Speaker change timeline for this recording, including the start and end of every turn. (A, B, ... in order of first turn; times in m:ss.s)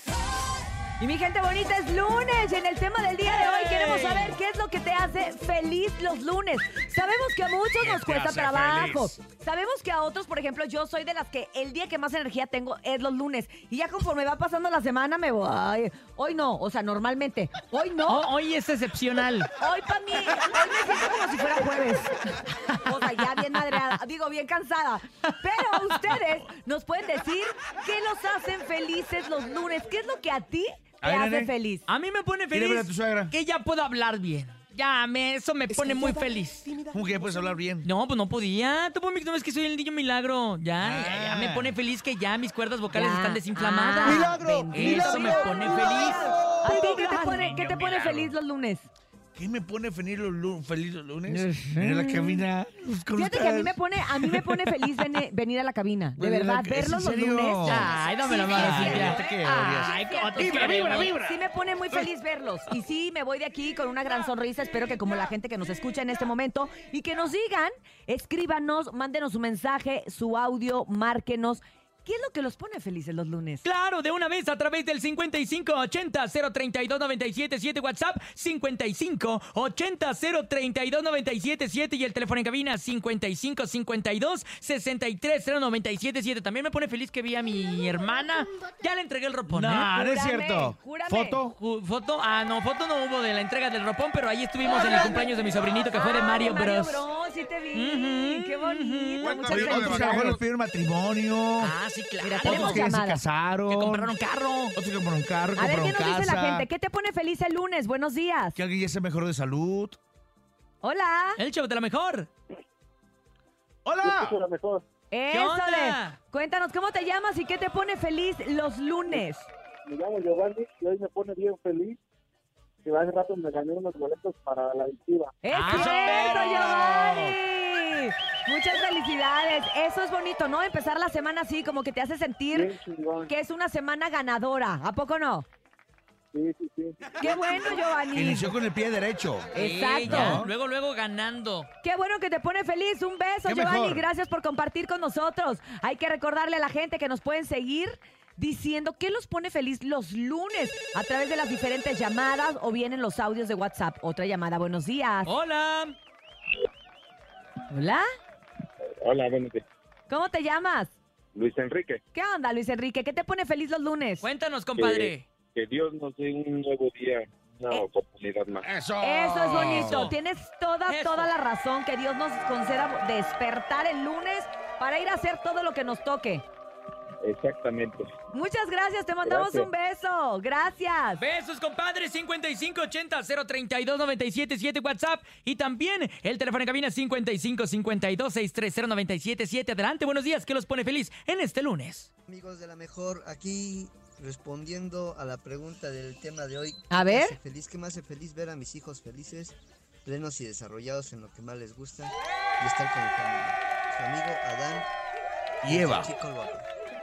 0:01.0-0:18.2 A
0:03.2-0:04.3 B
0:07.8-0:09.2 C
0:18.1-0:19.5 B
0:19.6-0:22.2 A
0:22.8-0:31.9 A
0:25.6-0:26.2 B
0:31.0-0:31.5 C
0:31.9-0:36.7 B
0:32.5-0:33.4 C
0:36.9-0:37.9 C
0:37.8-0:47.7 B
0:40.8-0:41.8 C
0:42.9-0:48.9 A
0:44.0-0:48.3 C
0:49.4-0:55.0 C
0:51.3-0:52.4 A
0:53.2-0:59.3 A
0:56.2-0:58.0 C
0:57.6-1:01.1 B
0:58.5-1:01.4 C
0:59.8-1:13.6 A
1:13.6-1:29.9 B
1:29.5-1:31.6 C
1:29.9-1:31.4 A
1:31.5-1:37.1 B
1:34.7-1:35.2 A
1:35.9-1:40.4 A
1:37.7-1:39.6 B
1:39.2-1:41.7 C
1:41.6-1:42.9 B
1:42.2-1:43.2 A
1:42.4-1:44.2 C
1:43.7-1:44.8 B
1:44.8-1:46.7 C
1:45.6-1:48.6 A
1:48.6-1:50.0 C
1:50.8-1:51.4 A
1:51.4-1:52.3 B
1:53.8-1:54.4 C
1:54.2-1:54.8 D
1:55.1-1:59.5 A
1:55.3-1:56.2 B
1:59.9-2:02.0 D
2:02.9-2:05.2 D
2:05.4-2:12.7 A
2:05.5-2:07.4 B
2:12.6-2:13.2 D
2:13.3-2:15.5 A
2:16.4-2:16.9 D
2:17.2-2:18.6 A
2:18.1-2:20.5 C
2:19.5-2:20.4 A
2:19.6-2:21.7 B
2:21.8-2:35.3 A
2:23.5-2:24.1 C
2:35.3-2:36.0 B
2:37.7-2:38.0 A
2:39.0-2:39.6 D
2:40.1-2:40.9 A
2:41.4-2:42.0 D
2:42.1-2:44.3 A
2:44.2-2:45.3 B
2:45.6-2:48.6 D
2:48.6-2:50.2 C
2:49.0-2:56.4 A
2:49.5-2:50.2 B
2:50.9-2:51.3 B
2:57.2-2:58.1 D
2:58.3-3:01.2 A
2:59.3-2:59.7 D
3:01.2-3:12.1 B
3:12.3-3:24.9 E
3:16.9-3:17.4 A
3:25.6-3:26.7 E
3:25.6-3:26.1 C